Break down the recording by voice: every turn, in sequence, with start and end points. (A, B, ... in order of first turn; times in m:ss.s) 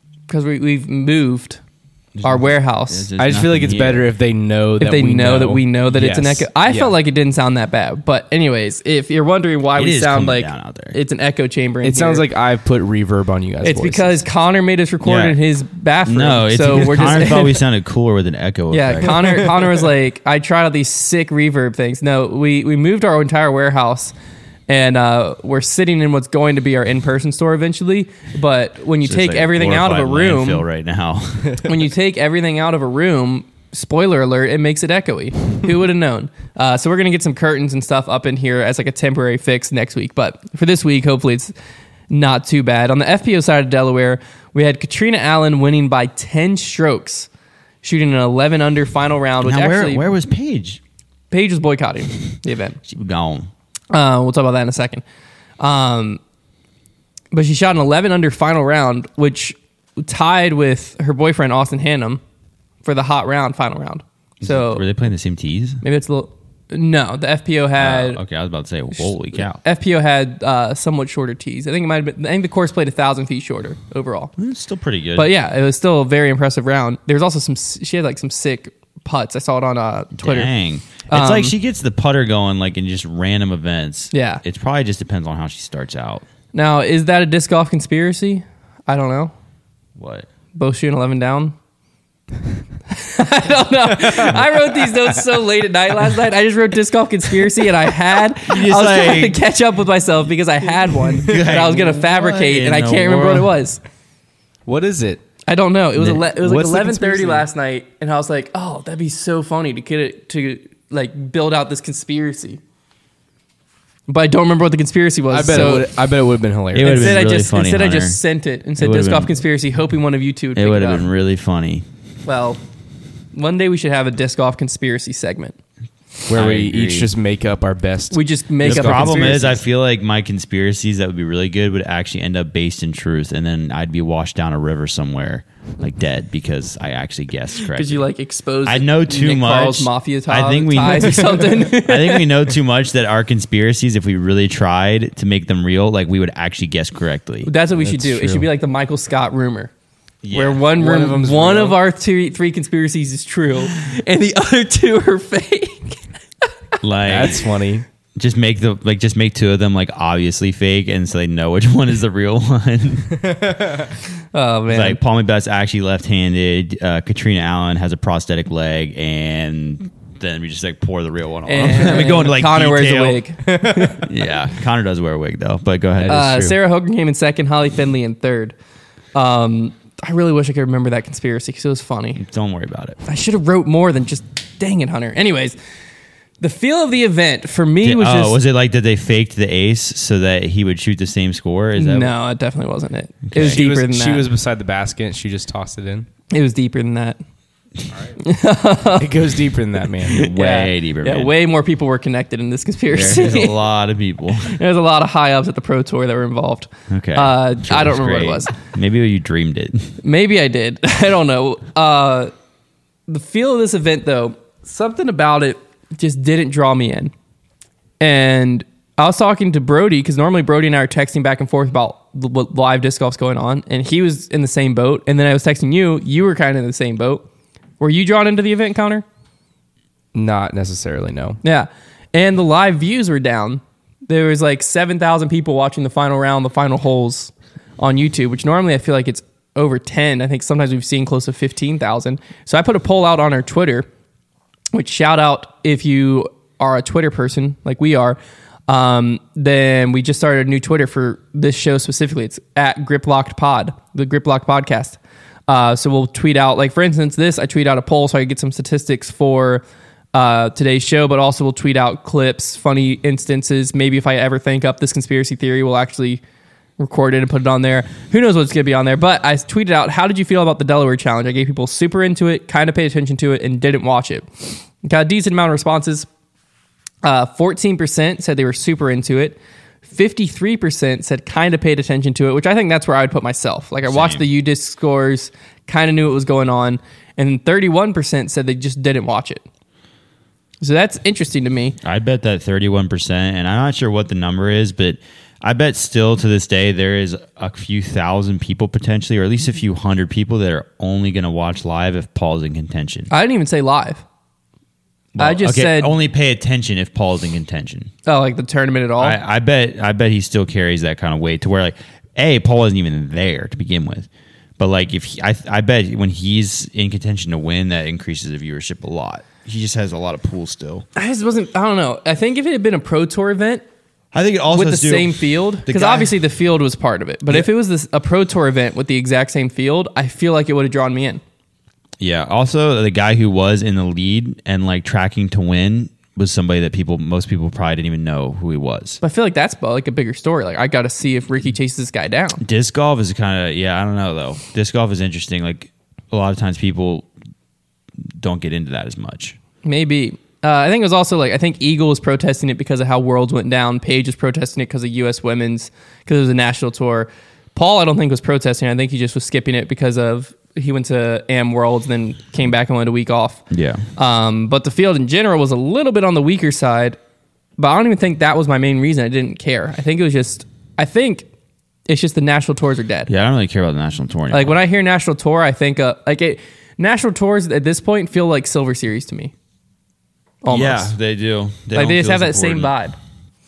0:00.3-0:01.6 A
0:02.2-0:04.1 B
0:02.2-0:03.1 A
0:03.2-0:07.0 C
0:04.8-0:12.2 A
0:09.8-0:11.0 B
0:11.8-0:14.2 C
0:13.6-0:17.6 A
0:15.0-0:15.4 B
0:16.1-0:19.7 B
0:18.7-0:24.1 A
0:24.7-0:30.6 A
0:29.0-0:31.7 B
0:31.6-0:41.5 A
0:42.1-0:47.3 A
0:47.8-0:50.0 A
0:49.4-0:50.8 B
0:51.3-0:52.8 A
0:52.8-0:53.5 B
0:53.9-0:55.0 A
0:55.6-0:56.2 A
0:57.3-1:02.2 A
1:02.8-1:04.9 A
1:04.4-1:05.8 B
1:05.8-1:08.2 A
1:07.8-1:09.6 B
1:09.5-1:14.3 A
1:14.4-1:15.3 B
1:15.2-1:20.5 A
1:20.2-1:26.2 B
1:21.1-1:21.6 A
1:24.1-1:24.4 A
1:26.5-1:29.3 A
1:30.0-1:30.3 B
1:30.6-1:31.6 A
1:32.9-1:43.8 A
1:38.4-1:39.4 B
1:41.2-1:43.6 B
1:44.7-1:45.2 C
1:45.5-1:52.6 A
1:46.0-1:47.5 C
1:54.1-1:55.9 A
1:55.3-1:57.2 C
1:56.7-1:58.2 B
1:56.8-2:01.1 A
1:58.8-1:59.4 B
2:00.6-2:01.8 B
2:02.3-2:02.6 A
2:03.3-2:05.6 A
2:06.3-2:09.5 C
2:06.3-2:07.1 B
2:08.1-2:09.6 A
2:08.6-2:18.0 B
2:17.6-2:22.3 A
2:18.6-2:27.5 B
2:27.4-2:29.7 A
2:27.8-2:28.4 C
2:30.2-2:30.6 B
2:30.3-2:36.0 A
2:30.8-2:31.8 C
2:36.8-2:37.5 B
2:37.1-2:37.8 C
2:38.2-2:43.4 B
2:44.3-2:45.0 A
2:44.7-2:53.2 B
2:51.5-2:54.0 A
2:53.5-2:54.0 C
2:54.0-2:56.3 B
2:56.0-2:56.6 C
2:56.1-2:58.6 A
2:59.2-3:02.2 A
3:02.2-3:03.0 B
3:03.0-3:05.6 A
3:06.4-3:08.4 A
3:07.8-3:12.1 B
3:11.8-3:14.3 A
3:13.3-3:13.6 B
3:13.4-3:16.1 C
3:16.3-3:17.2 A
3:18.2-3:19.2 A
3:19.0-3:20.3 C
3:20.1-3:23.6 A
3:20.1-3:21.3 B
3:22.9-3:24.6 B
3:24.4-3:28.5 A
3:26.9-3:30.0 B
3:30.0-3:32.3 A
3:33.1-3:37.1 A
3:38.0-3:47.2 A
3:47.8-3:49.0 A
3:50.1-3:51.4 C
3:51.4-4:03.9 A
4:04.7-4:26.2 A
4:26.8-4:36.1 A
4:37.0-4:49.4 A
4:43.9-4:44.2 B
4:50.6-4:51.8 A
4:51.8-5:03.1 B
5:03.1-5:04.0 A
5:05.2-5:07.9 B
5:05.2-5:05.9 A
5:08.1-5:09.2 A
5:09.0-5:14.1 B
5:14.6-5:20.8 B
5:21.0-5:23.6 A
5:24.1-5:26.1 B
5:24.5-5:31.2 A
5:32.0-5:39.0 B
5:39.0-5:42.4 A
5:42.4-5:47.1 B
5:48.2-5:49.4 B
5:49.6-6:07.0 A
6:03.5-6:03.8 B
6:07.6-6:11.3 A
6:11.9-6:13.1 A
6:13.1-6:14.6 B
6:14.3-6:19.3 A
6:20.4-6:20.9 A
6:20.5-6:22.7 B
6:21.7-6:23.0 A